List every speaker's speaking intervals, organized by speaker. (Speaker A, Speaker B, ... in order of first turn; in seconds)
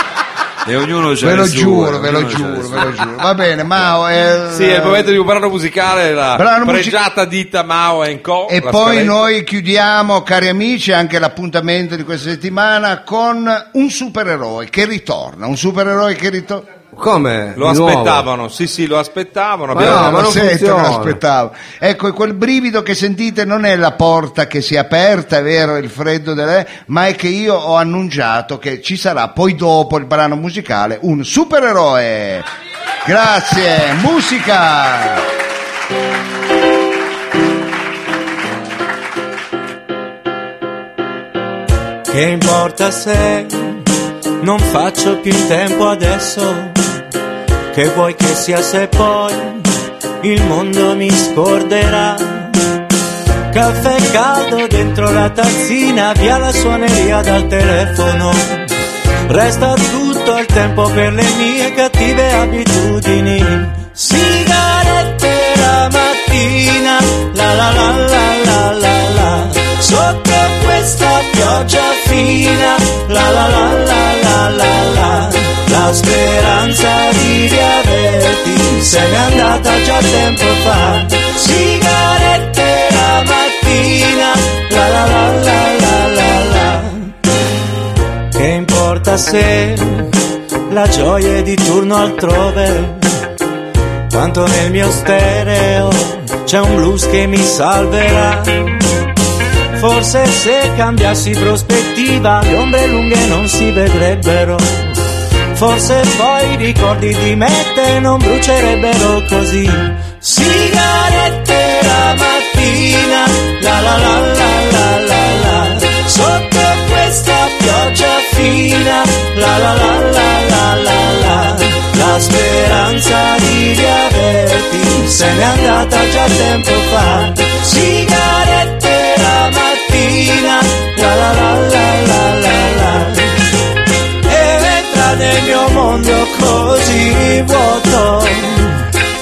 Speaker A: 0.6-3.2
Speaker B: 1.2-5.1, 6.3-7.0, 8.5-16.6, 19.8-32.5, 33.0-35.2
Speaker C: 4.5-9.2, 17.5-20.2
Speaker D: 16.9-18.2, 19.7-21.2
Speaker E: 42.1-43.8, 44.4-46.8, 47.7-49.7, 50.2-52.6, 53.5-58.7, 59.3-87.1, 88.3-90.2, 90.7-93.1, 94.1-98.8, 99.7-105.0, 105.5-133.4, 134.2-138.9